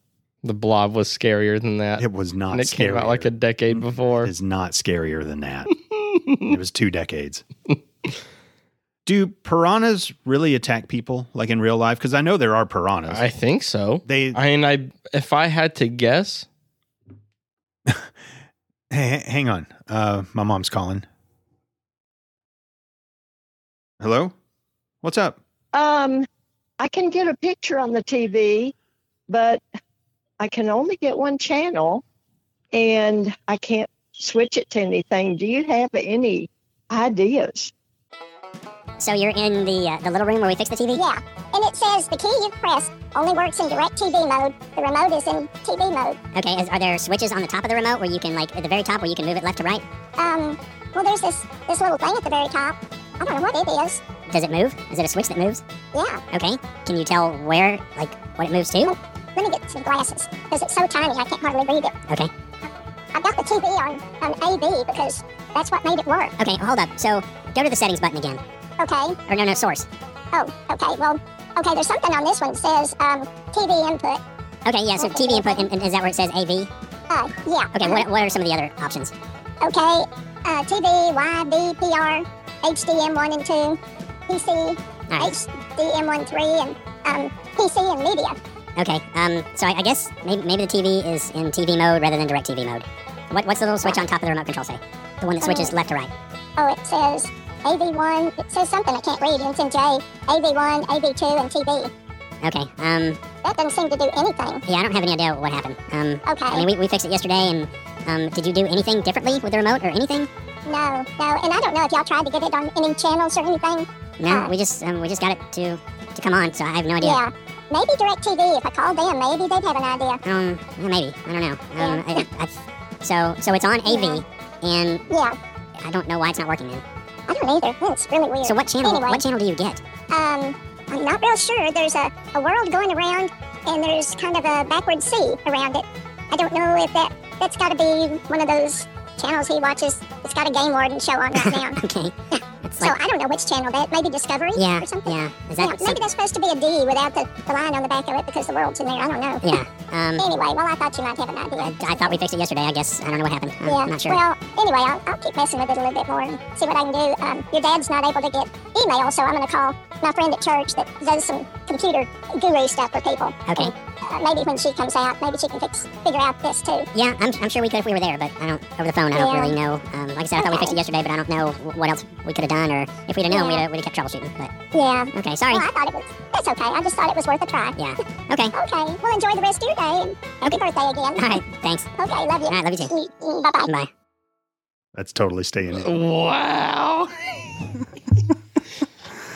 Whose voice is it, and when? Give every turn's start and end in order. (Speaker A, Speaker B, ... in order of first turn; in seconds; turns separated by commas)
Speaker A: 0.4-4.3, Speaker B: 2.0-5.7, Speaker A: 6.1-6.4, Speaker B: 6.4-7.4, Speaker B: 9.1-13.2, Speaker A: 13.1-16.5, Speaker B: 14.1-14.4, Speaker B: 18.9-21.1, Speaker B: 24.0-24.3, Speaker B: 25.0-25.4, Speaker C: 25.7-26.2, Speaker C: 26.8-28.7, Speaker C: 29.3-29.6, Speaker C: 30.4-32.0, Speaker C: 32.7-37.7, Speaker D: 39.0-41.0, Speaker E: 40.9-46.2, Speaker D: 46.3-49.8, Speaker E: 50.2-54.0, Speaker D: 54.3-55.6, Speaker E: 55.9-56.2, Speaker D: 56.3-58.9, Speaker E: 58.9-61.9, Speaker E: 63.1-66.3, Speaker D: 66.4-68.4, Speaker E: 68.8-69.2, Speaker D: 69.3-69.9, Speaker E: 70.3-74.2, Speaker D: 74.6-76.7, Speaker E: 75.0-75.7, Speaker E: 77.1-78.0, Speaker D: 77.7-79.1, Speaker E: 79.6-88.3, Speaker D: 88.8-96.1, Speaker E: 95.4-95.7, Speaker E: 96.6-101.9, Speaker D: 102.4-103.2, Speaker E: 103.4-104.6, Speaker D: 104.7-110.3, Speaker E: 106.2-106.6, Speaker E: 110.7-114.5, Speaker D: 114.2-117.2, Speaker E: 117.0-120.2, Speaker D: 120.2-125.0, Speaker E: 121.8-122.2, Speaker E: 123.8-124.2, Speaker E: 125.1-125.3, Speaker D: 125.8-126.8, Speaker E: 127.3-129.2, Speaker D: 128.4-129.8, Speaker E: 130.1-141.8, Speaker D: 141.3-142.9, Speaker E: 142.8-149.6, Speaker D: 144.6-146.0, Speaker D: 149.4-150.3, Speaker E: 150.2-152.2, Speaker D: 151.5-154.2, Speaker E: 153.6-166.9, Speaker D: 163.5-163.7, Speaker D: 166.9-174.5, Speaker E: 169.1-169.6, Speaker E: 170.3-170.8, Speaker E: 173.3-173.6, Speaker E: 174.7-177.8, Speaker D: 175.1-175.7, Speaker D: 177.8-178.5, Speaker E: 178.5-181.4, Speaker D: 181.2-181.9, Speaker E: 182.0-183.7, Speaker D: 182.5-182.9, Speaker D: 183.6-183.9, Speaker B: 184.9-186.0, Speaker A: 185.7-187.1